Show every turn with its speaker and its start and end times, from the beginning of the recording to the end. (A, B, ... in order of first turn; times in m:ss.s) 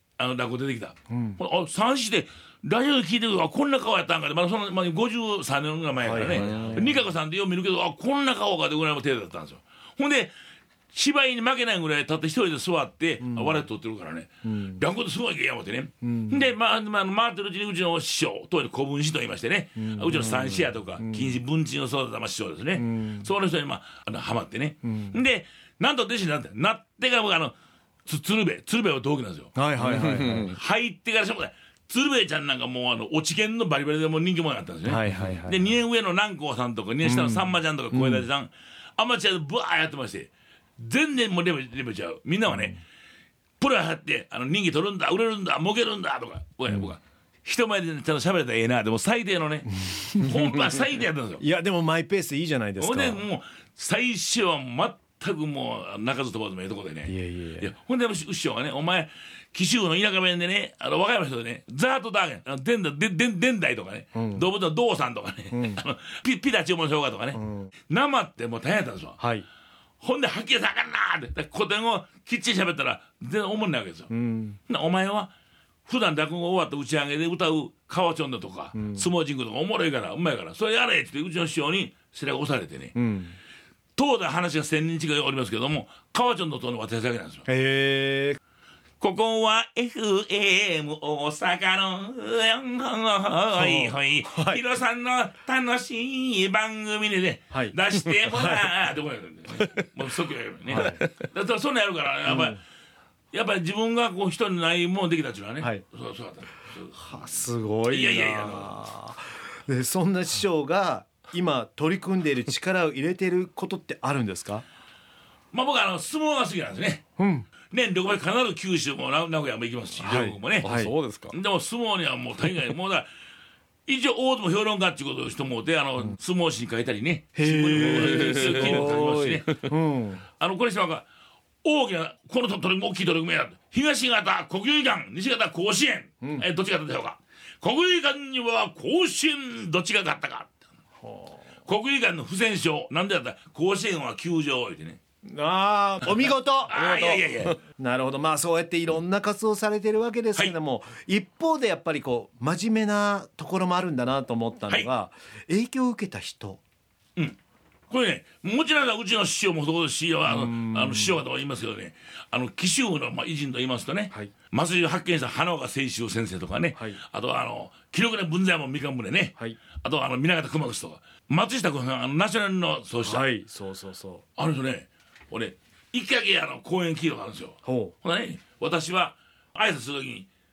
0:00.2-0:10.3 A
0:01.1-0:01.4 B
0:06.0-0:07.0 B
0:06.3-0:06.9 C
0:10.9-0:27.5 A
0:13.2-0:13.6 B
0:14.4-0:14.8 B
0:16.0-0:16.5 B
0:19.8-0:21.4 B
0:22.8-0:23.3 B
0:24.8-0:25.2 B
0:28.0-0:29.6 A
0:29.5-0:30.6 B
0:29.8-0:30.5 C
0:30.2-0:42.8 A
0:34.8-0:35.8 B
0:37.0-0:38.3 B
0:42.4-0:42.8 B
0:43.6-0:51.4 A
0:46.7-0:46.9 B
0:49.7-0:50.8 B
0:51.4-0:53.2 B
0:52.8-1:09.2 A
0:57.0-0:57.7 B
1:04.1-1:04.5 B
1:05.5-1:05.8 B
1:07.3-1:07.7 B
1:09.2-1:09.5 B
1:10.0-1:14.1 A
1:14.1-1:14.6 B
1:14.7-1:15.3 A
1:15.9-1:22.9 A
1:18.7-1:19.1 B
1:22.9-1:23.3 B
1:24.0-1:27.4 A
1:27.4-1:28.4 B
1:29.0-1:42.6 A
1:33.5-1:34.6 B
1:37.5-1:37.8 B
1:38.3-1:38.7 B
1:40.7-1:41.0 B
1:42.2-1:42.6 B
1:43.3-1:47.2 A
1:46.9-1:54.6 B
1:47.9-1:48.8 A
1:55.5-1:57.0 A
1:57.2-1:57.5 B
1:57.7-2:00.7 A
2:00.0-2:00.9 B
2:00.6-2:01.4 C
2:01.3-2:03.1 A
2:03.9-2:09.7 A
2:07.3-2:10.2 B
2:07.8-2:09.1 C
2:10.4-2:11.0 A
2:11.6-2:20.5 A
2:21.0-2:21.4 B
2:21.6-2:25.0 A
2:25.2-2:26.8 B
2:26.7-2:27.6 A
2:26.7-2:27.6 C
2:27.8-2:36.6 B
2:37.9-2:53.2 A
2:40.2-2:41.2 B
2:46.7-2:47.0 B
2:53.0-2:54.2 B
2:54.4-3:00.3 A
2:57.6-2:57.9 B